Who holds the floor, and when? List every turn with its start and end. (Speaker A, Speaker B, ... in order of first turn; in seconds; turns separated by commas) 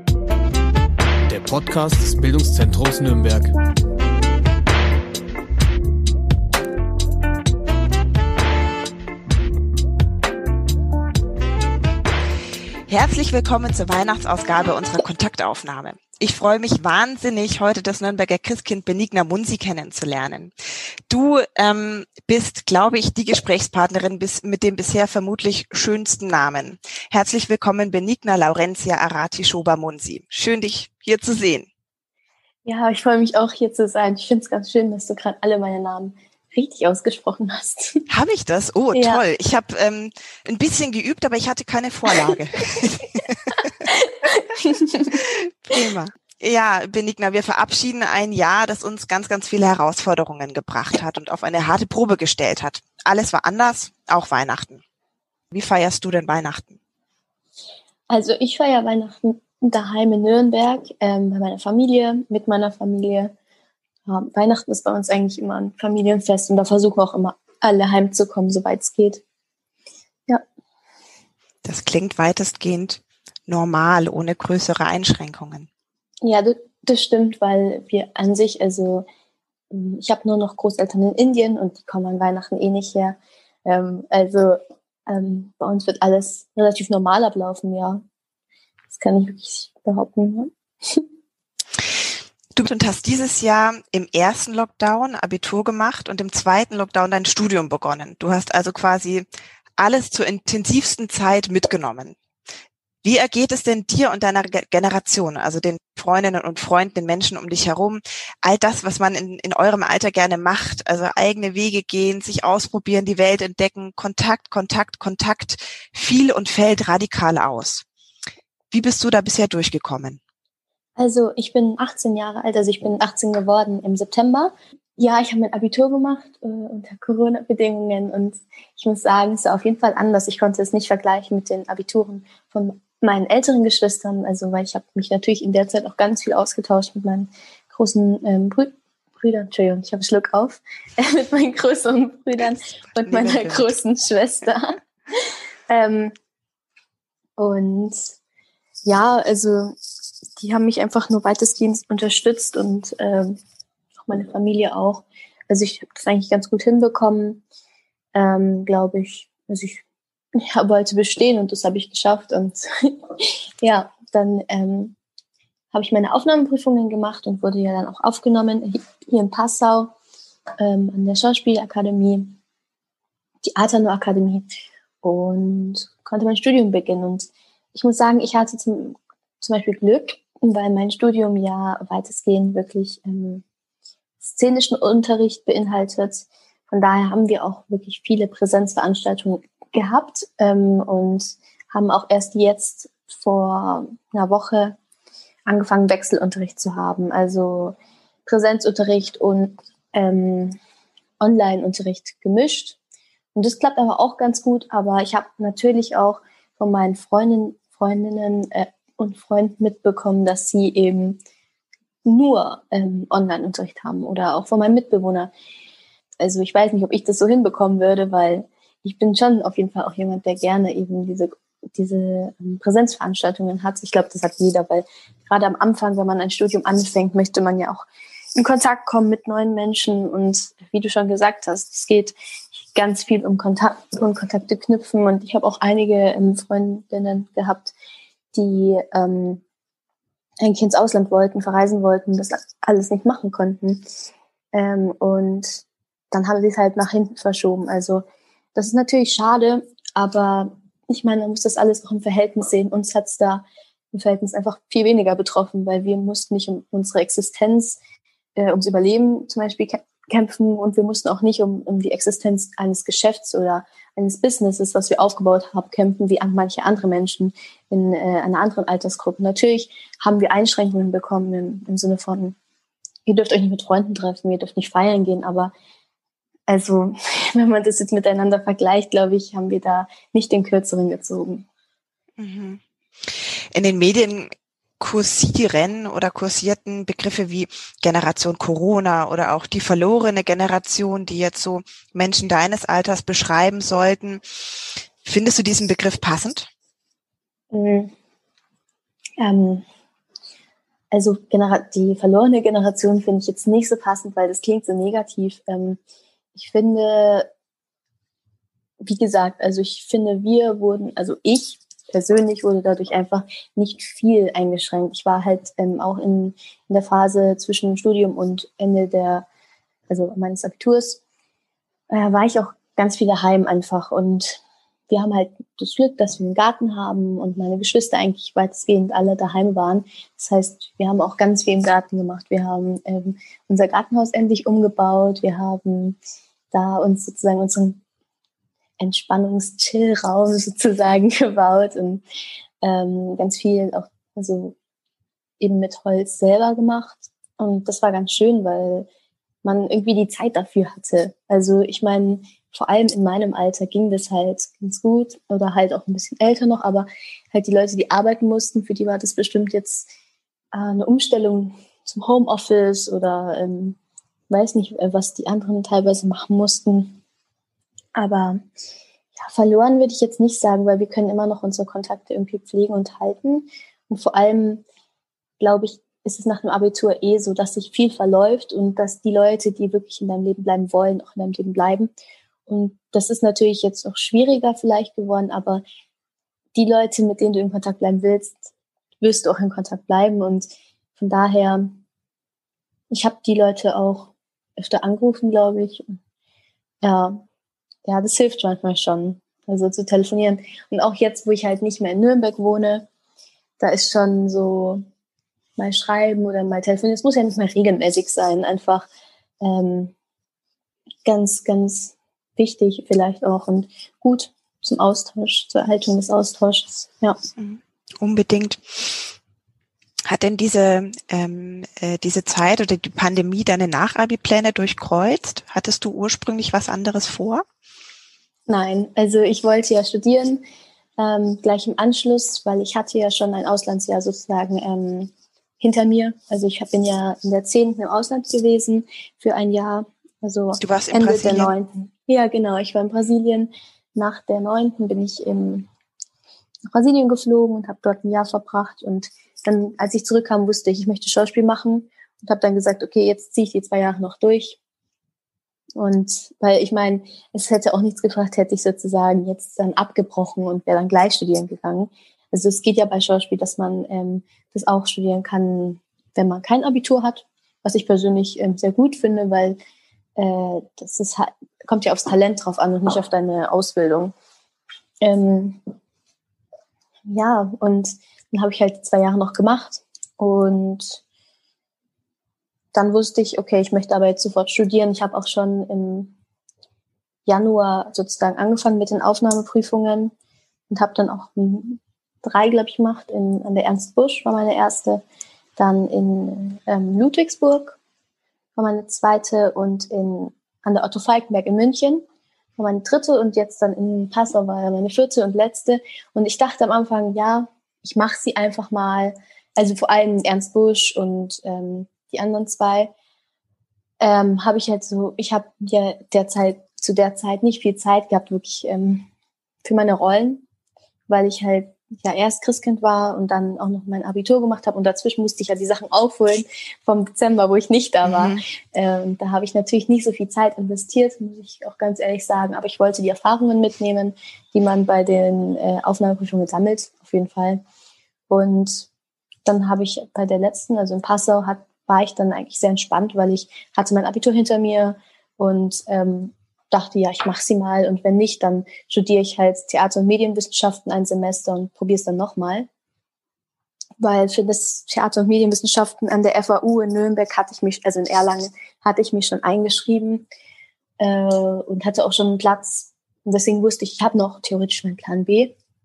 Speaker A: 1.3-3.5, Speaker B: 12.9-20.5, Speaker B: 21.1-31.7, Speaker C: 32.7-38.1, Speaker B: 38.1-43.9, Speaker C: 38.9-39.2, Speaker C: 43.9-45.2, Speaker B: 45.1-54.8, Speaker B: 55.5-56.8, Speaker C: 58.1-63.3, Speaker C: 64.1-69.2, Speaker B: 71.6-75.7, Speaker C: 76.2-79.1, Speaker C: 79.7-88.0, Speaker C: 88.9-91.1, Speaker B: 92.5-99.3, Speaker B: 99.8-102.2, Speaker B: 103.0-117.8, Speaker B: 118.7-120.2, Speaker C: 121.0-146.1, Speaker B: 143.0-143.7, Speaker C: 147.4-148.2, Speaker C: 148.9-149.8, Speaker C: 150.4-153.4, Speaker C: 154.1-157.4, Speaker C: 158.2-159.8, Speaker C: 160.4-164.9, Speaker C: 165.7-169.9, Speaker C: 170.6-172.4, Speaker C: 173.4-174.5, Speaker C: 175.0-183.4, Speaker C: 184.2-194.8, Speaker C: 195.5-200.6, Speaker C: 201.2-202.8, Speaker C: 203.3-211.2, Speaker C: 212.1-215.3, Speaker C: 216.2-227.9, Speaker C: 228.4-232.1, Speaker C: 232.7-237.7, Speaker C: 238.3-239.4, Speaker C: 240.4-243.8, Speaker C: 244.5-248.0, Speaker C: 248.6-257.8, Speaker C: 258.4-272.4, Speaker C: 273.1-275.5, Speaker C: 276.5-281.4, Speaker B: 282.2-294.2, Speaker B: 295.0-296.5, Speaker C: 297.5-297.9, Speaker C: 299.2-299.6, Speaker C: 300.9-305.8, Speaker C: 306.4-307.3, Speaker C: 308.8-319.3, Speaker C: 319.9-321.0, Speaker C: 321.9-336.0, Speaker C: 336.5-337.8, Speaker C: 338.8-342.0, Speaker C: 342.6-344.6, Speaker C: 345.4-348.9, Speaker C: 349.4-359.9, Speaker C: 360.5-363.8, Speaker C: 364.3-367.0, Speaker C: 368.0-368.4, Speaker C: 369.2-374.6, Speaker C: 375.4-381.9, Speaker C: 382.5-385.6, Speaker C: 386.6-391.8, Speaker C: 392.9-395.9, Speaker C: 396.8-397.2, Speaker C: 397.9-402.9, Speaker C: 403.6-404.8, Speaker C: 405.6-408.9, Speaker C: 409.4-409.9, Speaker C: 411.1-417.2, Speaker B: 417.4-419.1, Speaker B: 420.1-427.4, Speaker C: 428.5-430.4, Speaker C: 431.0-445.7, Speaker B: 440.6-441.5, Speaker C: 446.7-454.6, Speaker C: 455.8-469.6, Speaker C: 470.2-474.1, Speaker C: 475.0-475.6, Speaker C: 477.1-481.0, Speaker C: 482.7-486.1, Speaker C: 487.3-490.1, Speaker C: 490.7-495.0, Speaker C: 495.6-497.8, Speaker C: 498.6-502.0, Speaker C: 502.6-512.9, Speaker C: 514.0-519.1, Speaker C: 519.6-520.4, Speaker C: 521.1-537.6, Speaker B: 528.0-528.4, Speaker C: 538.3-538.9, Speaker C: 539.5-552.7, Speaker C: 554.0-560.3, Speaker C: 561.0-565.5